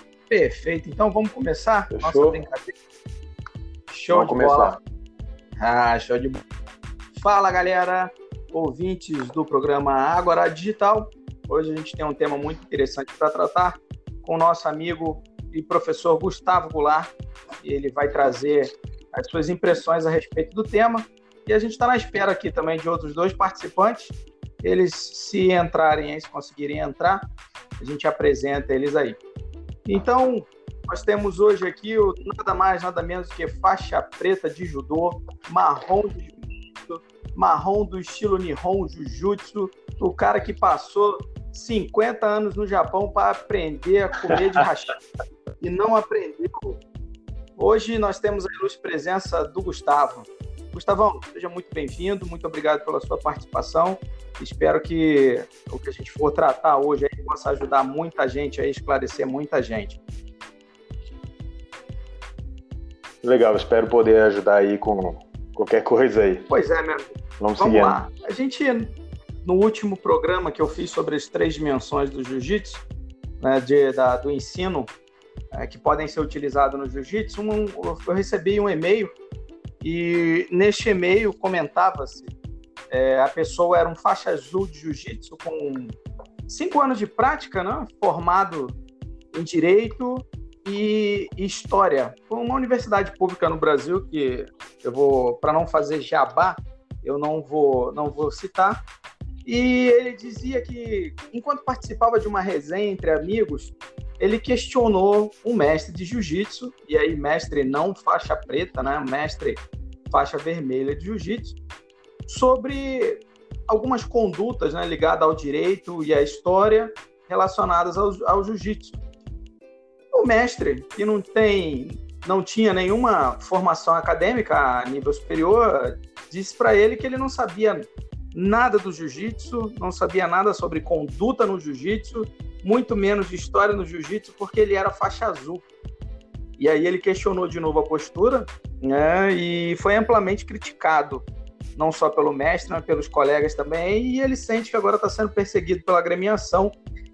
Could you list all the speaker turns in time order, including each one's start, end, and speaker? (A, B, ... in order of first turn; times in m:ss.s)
0:00.3-0:02.7 A
0:01.9-0:02.4 B
0:03.9-0:04.8 A
0:04.1-0:04.8 B
0:05.6-0:06.4 A
0:07.1-0:27.2 A
0:27.8-0:29.2 A
0:29.8-0:45.0 A
0:45.6-0:46.8 A
0:47.6-1:00.0 A
1:03.2-1:06.5 B
1:06.5-1:08.9 A
1:07.4-1:08.0 B
1:09.4-1:12.8 A
1:13.4-1:14.9 A
1:15.5-1:19.2 A
1:19.8-1:22.3 A
1:22.9-1:26.0 A
1:26.5-1:28.8 A
1:29.3-1:38.8 A
1:39.4-1:51.6 A
1:52.3-1:59.0 A
2:00.1-2:15.6 A
2:16.6-2:21.2 A
2:21.8-2:26.8 A